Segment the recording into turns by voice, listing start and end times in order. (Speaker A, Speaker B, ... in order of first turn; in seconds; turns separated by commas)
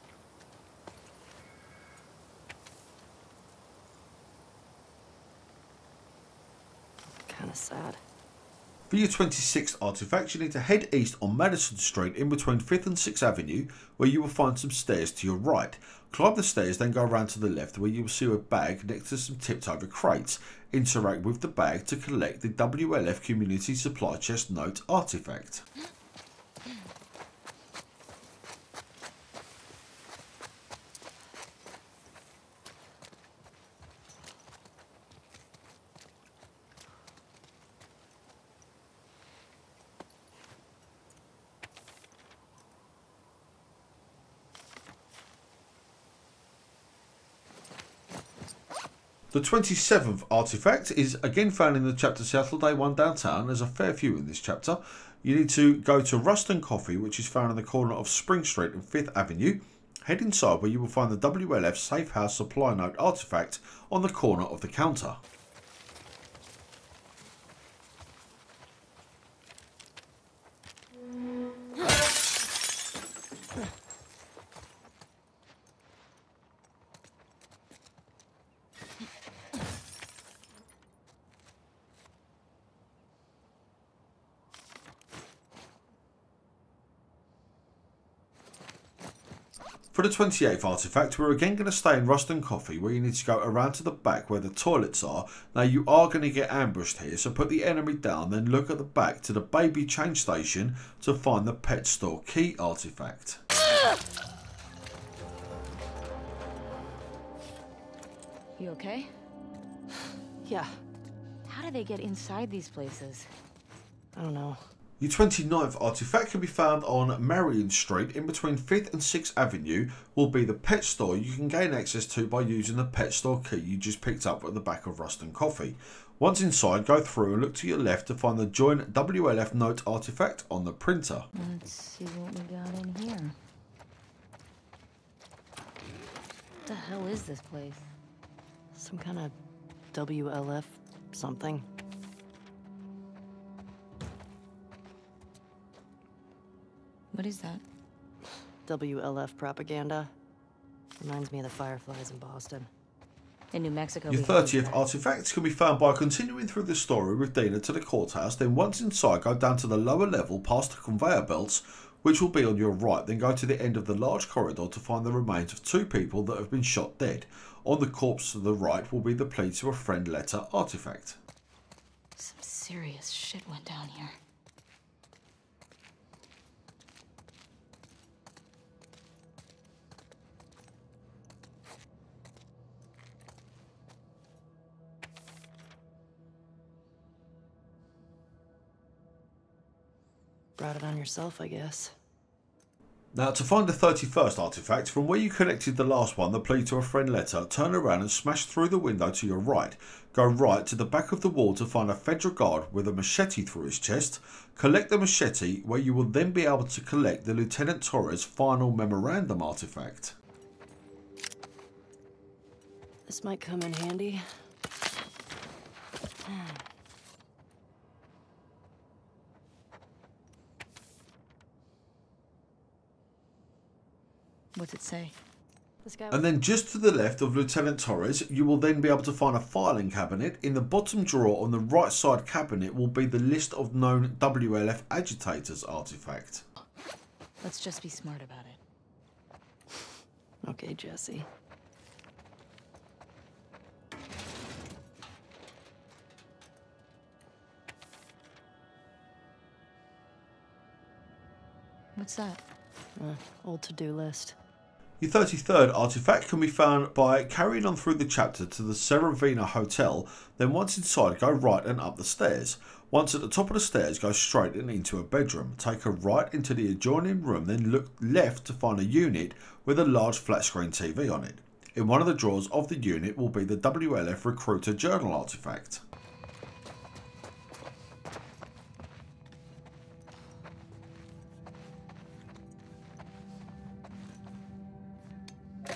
Speaker A: 7.1-8.0, Speaker B: 8.9-25.6, Speaker B: 49.3-65.2, Speaker B: 89.9-103.4, Speaker C: 108.6-109.2, Speaker A: 110.5-110.8, Speaker C: 111.5-113.3, Speaker A: 114.2-114.6, Speaker B: 115.0-131.3, Speaker C: 131.3-133.4, Speaker C: 136.7-137.8, Speaker A: 138.7-139.3, Speaker A: 139.9-141.7, Speaker C: 147.1-147.6, Speaker A: 148.7-150.1, Speaker A: 151.0-152.7, Speaker C: 153.5-154.8, Speaker B: 154.1-171.2, Speaker C: 172.2-174.2, Speaker A: 190.6-191.9, Speaker B: 193.1-210.2, Speaker A: 213.1-214.5, Speaker C: 224.5-225.1, Speaker A: 225.8-226.2, Speaker B: 226.1-236.4, Speaker C: 237.4-238.6, Speaker A: 240.4-241.3, Speaker C: 252.0-252.4, Speaker A: 253.0-254.4, Speaker B: 255.0-275.8